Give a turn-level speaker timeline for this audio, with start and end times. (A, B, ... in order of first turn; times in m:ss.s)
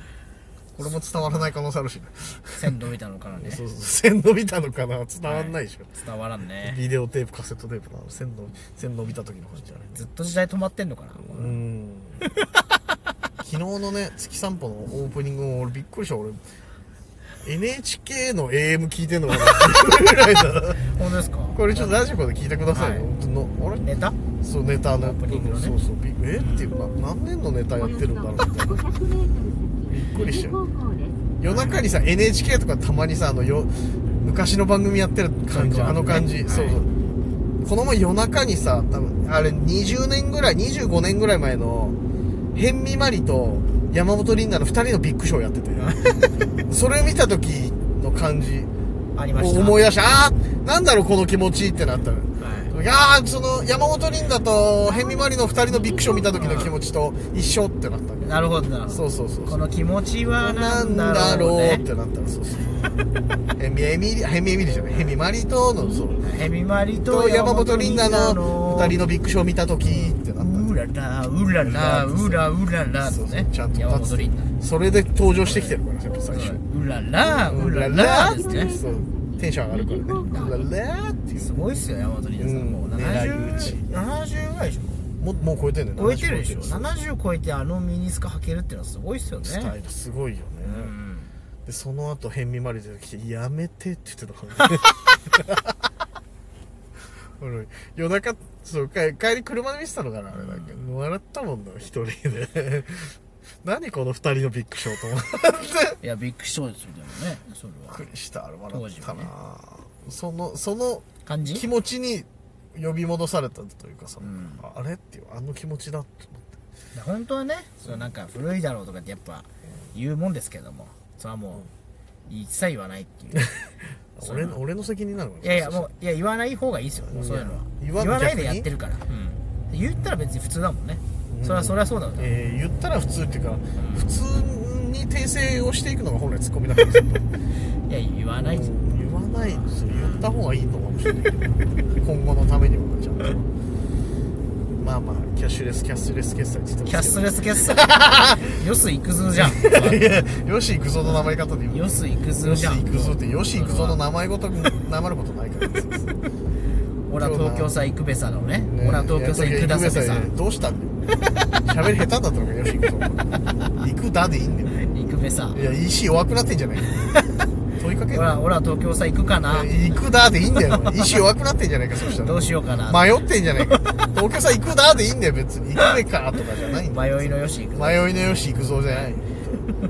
0:00.8-0:01.5 A
0:00.8-0:02.6 B
0:02.6-0:03.6 A
0:03.3-0:05.9 B
0:05.2-0:06.8 A
0:06.6-0:10.1 B
0:09.9-0:11.5 A
0:11.2-0:12.2 B
0:13.4-0:16.4 B
0:17.4-0:20.9 B
0:20.9-0:21.9 A
0:21.5-0:23.9 B
0:22.7-0:23.1 A
0:23.8-0:24.2 A
0:24.4-0:28.9 B
0:24.9-0:25.8 A
0:26.3-0:26.7 A
0:27.9-0:31.2 C
0:29.9-0:30.6 B
0:31.4-0:36.9 B
0:31.4-0:31.9 A
0:35.5-0:36.8 A
0:37.6-0:42.0 B
0:42.5-0:46.0 B
0:45.8-0:46.4 A
0:46.6-0:48.7 B
0:49.1-0:49.8 A
0:49.3-0:58.3 B
0:52.4-0:52.7 A
0:54.8-0:55.2 C
0:55.9-0:56.2 C
0:56.3-0:56.7 A
0:58.2-1:01.8 A
0:58.9-0:59.6 B
1:00.4-1:02.9 B
1:03.6-1:06.2 B
1:06.2-1:09.0 A
1:06.9-1:10.7 B
1:09.8-1:14.5 A
1:11.6-1:12.5 B
1:13.0-1:16.6 B
1:15.4-1:15.8 A
1:16.3-1:18.7 A
1:17.4-1:21.5 B
1:18.1-1:20.7 C
1:21.4-1:25.0 A
1:22.4-1:23.9 B
1:25.2-1:27.0 B
1:26.0-1:29.7 A
1:29.4-1:30.9 B
1:30.6-1:31.3 A
1:31.6-1:35.7 B
1:37.4-1:46.0 B
1:40.3-1:40.8 A
1:46.0-1:48.0 A
1:47.9-1:56.4 B
1:48.7-1:49.3 A
1:51.2-1:51.6 A
1:54.2-1:54.6 A
1:56.9-2:01.7 A
2:02.2-2:03.6 A
2:04.2-2:05.9 B
2:04.2-2:04.6 A
2:05.4-2:12.3 A
2:07.1-2:08.7 B
2:11.3-2:17.3 B
2:13.7-2:14.2 A
2:17.8-2:18.7 A
2:18.3-2:23.5 B
2:19.3-2:20.3 A
2:24.7-2:28.4 B
2:26.8-2:30.1 A
2:29.3-2:36.2 B
2:31.0-2:34.0 A
2:37.1-2:40.3 A
2:37.2-2:37.7 B
2:38.7-2:47.1 B
2:44.7-2:45.6 A
2:47.7-2:48.5 B
2:48.1-2:49.7 A
2:49.4-2:59.6 B
2:52.1-2:53.1 A
2:56.9-2:58.1 A